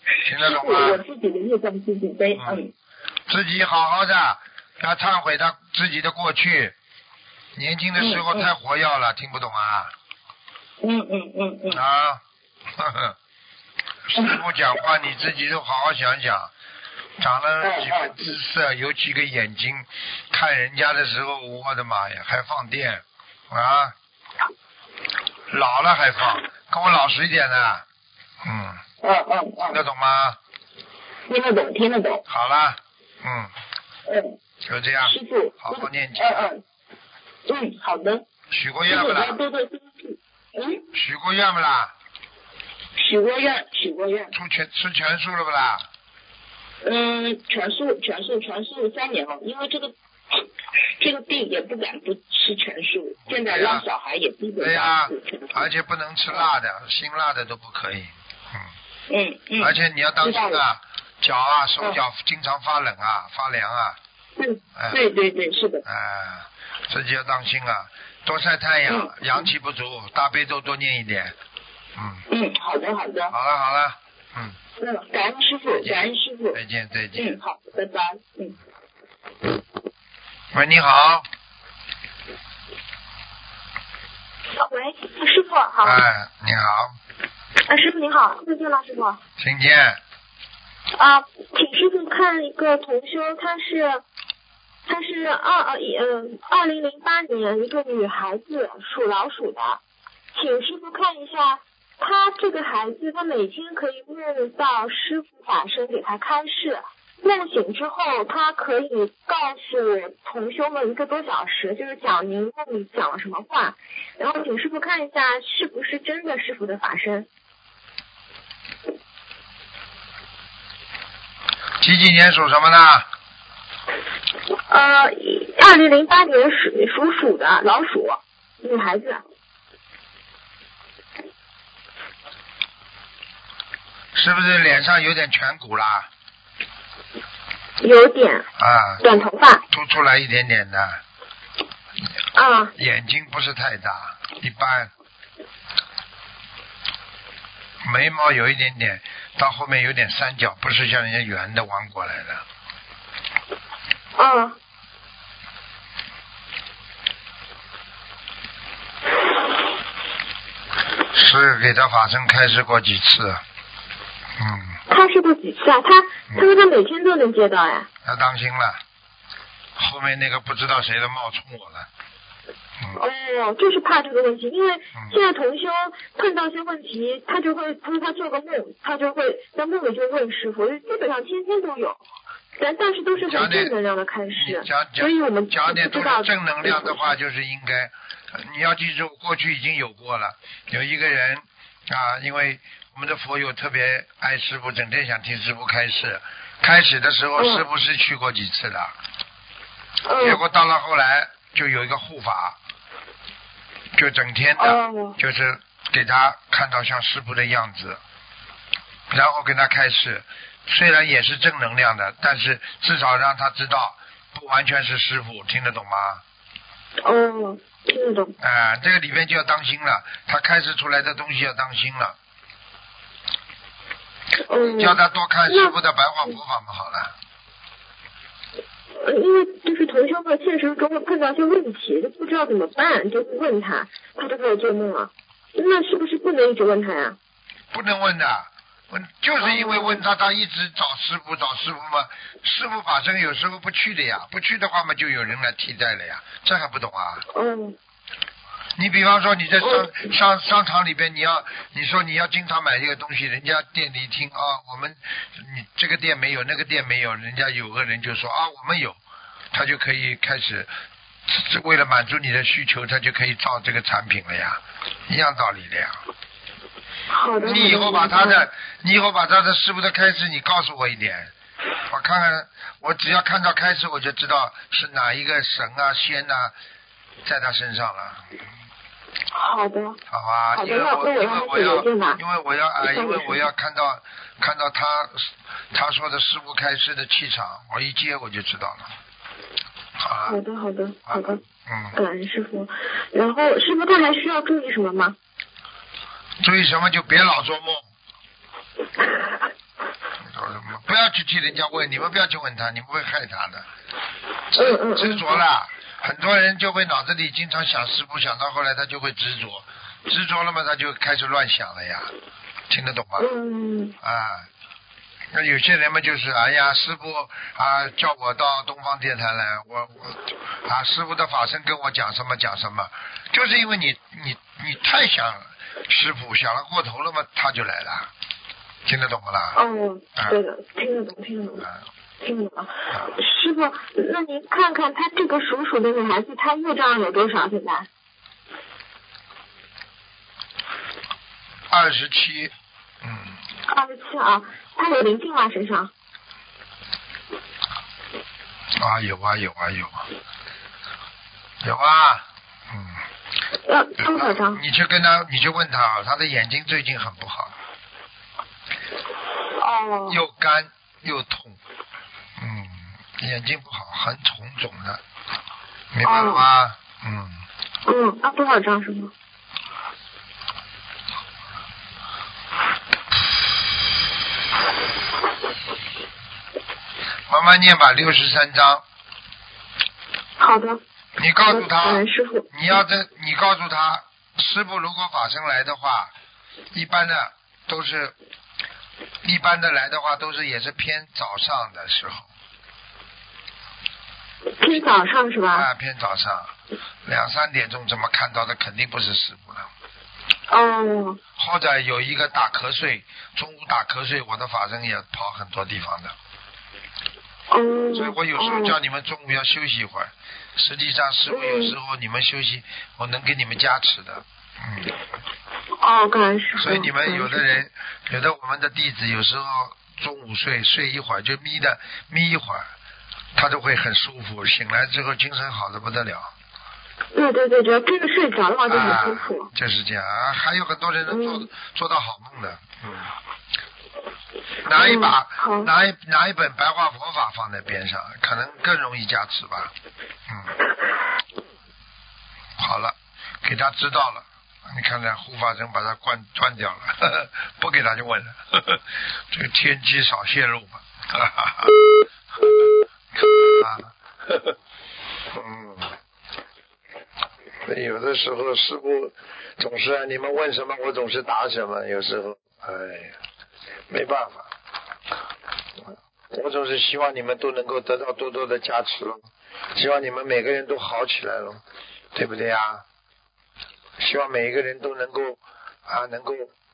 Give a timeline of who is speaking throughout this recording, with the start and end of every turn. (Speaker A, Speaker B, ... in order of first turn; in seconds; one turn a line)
Speaker A: 0.2-1.0
Speaker B: 0.3-2.7
Speaker A: 2.4-2.6
Speaker A: 3.3-6.8
Speaker A: 7.6-9.9
Speaker B: 8.0-8.5
Speaker B: 10.8-11.8
Speaker A: 11.7-12.2
Speaker A: 12.8-13.2
Speaker A: 14.1-16.5
Speaker A: 17.2-23.9
Speaker B: 17.6-18.2
Speaker A: 25.5-27.8
Speaker A: 28.4-28.8
Speaker B: 29.0-29.8
Speaker A: 29.7-30.4
Speaker B: 31.3-32.2
Speaker A: 32.3-33.5
Speaker B: 34.1-34.4
Speaker A: 34.6-36.5
Speaker B: 35.0-36.6
Speaker B: 37.5-38.2
Speaker A: 38.5-39.4
Speaker B: 38.9-40.9
Speaker A: 40.9-41.9
Speaker B: 43.0-44.3
Speaker A: 44.3-45.9
Speaker B: 46.8-50.4
Speaker B: 51.0-55.7
Speaker A: 53.3-53.9
Speaker A: 54.6-58.7
Speaker B: 59.1-60.6
Speaker A: 59.6-64.0
Speaker B: 64.4-65.8
Speaker A: 64.8-65.0
Speaker A: 65.8-71.3
Speaker B: 68.9-69.5
Speaker A: 72.0-72.2
Speaker B: 72.3-73.3
Speaker A: 73.3-74.6
Speaker B: 74.8-76.6
Speaker A: 75.8-77.4
Speaker B: 77.2-78.6
Speaker A: 80.5-81.3
Speaker C: 84.6-86.0
Speaker A: 85.8-86.9
Speaker C: 87.7-89.2
Speaker A: 89.4-90.0
Speaker C: 91.0-94.0
Speaker C: 94.9-99.8
Speaker C: 100.3-117.3
Speaker A: 121.8-123.1
Speaker C: 124.7-129.2
Speaker A: 134.1-136.1
Speaker C: 137.8-138.5
Speaker A: 138.6-141.0
Speaker C: 139.0-139.6
Speaker C: 142.3-142.7
Speaker A: 142.8-144.9
Speaker A: 147.8-152.4
Speaker C: 154.2-154.6
Speaker A: 161.1-163.4
Speaker A: 164.4-164.8
Speaker C: 164.9-167.9
Speaker A: 168.0-168.8
Speaker A: 169.8-171.9
Speaker C: 173.0-182.0
Speaker A: 174.9-175.2
Speaker C: 182.6-187.0
Speaker A: 183.1-183.8
Speaker A: 184.3-198.9
Speaker C: 197.4-197.6
Speaker C: 200.1-200.4
Speaker A: 200.2-202.6
Speaker A: 203.9-208.0
Speaker C: 204.6-205.2
Speaker A: 209.1-216.2
Speaker C: 217.0-218.3
Speaker A: 218.4-222.2
Speaker C: 224.5-225.7
Speaker A: 224.6-227.1
Speaker C: 229.0-237.2
Speaker A: 237.7-247.2
Speaker C: 239.5-240.0
Speaker C: 247.3-247.8
Speaker A: 248.8-259.0
Speaker A: 259.5-260.7
Speaker A: 261.3-266.0
Speaker C: 267.1-268.4
Speaker A: 267.4-271.3
Speaker A: 271.9-276.5
Speaker A: 277.2-278.2
Speaker C: 279.3-280.0
Speaker A: 280.1-288.9
Speaker C: 280.6-282.2
Speaker C: 282.9-283.4
Speaker A: 290.0-290.4
Speaker C: 290.3-291.4
Speaker A: 291.1-292.0
Speaker C: 292.0-295.1
Speaker A: 296.4-297.8
Speaker A: 300.2-303.7
Speaker A: 304.5-312.1
Speaker C: 304.6-305.4
Speaker A: 312.7-313.3
Speaker C: 313.2-313.9
Speaker A: 314.0-314.5
Speaker A: 315.3-328.1
Speaker A: 328.9-329.6
Speaker C: 329.6-331.6
Speaker C: 332.2-337.9
Speaker A: 341.7-343.4
Speaker C: 343.7-345.9
Speaker A: 348.8-350.0
Speaker A: 351.6-353.0
Speaker C: 353.7-354.6
Speaker A: 354.0-357.5
Speaker C: 359.6-360.2
Speaker A: 360.1-361.6
Speaker A: 362.4-365.0
Speaker A: 365.9-367.4
Speaker C: 366.0-366.4
Speaker C: 367.9-369.1
Speaker A: 377.3-378.8
Speaker C: 380.4-380.8
Speaker A: 381.2-386.1
Speaker C: 381.6-382.4
Speaker A: 386.7-388.1
Speaker A: 389.2-392.3
Speaker C: 394.6-395.7
Speaker A: 395.5-396.5
Speaker A: 397.1-399.7
Speaker C: 400.5-401.2
Speaker A: 401.4-406.1
Speaker C: 407.5-408.8
Speaker A: 407.9-414.9
Speaker C: 411.3-411.8
Speaker C: 415.8-417.6
Speaker A: 416.6-422.7
Speaker A: 423.4-426.3
Speaker C: 427.1-429.5
Speaker A: 428.7-433.1
Speaker C: 431.1-431.5
Speaker A: 434.6-439.7
Speaker C: 434.8-435.7
Speaker A: 440.3-440.6
Speaker A: 442.6-451.8
Speaker A: 452.4-454.6
Speaker A: 455.3-455.9
Speaker A: 457.6-463.2
Speaker A: 463.9-464.5
Speaker A: 465.8-471.6
Speaker A: 472.1-472.8
Speaker A: 474.0-476.5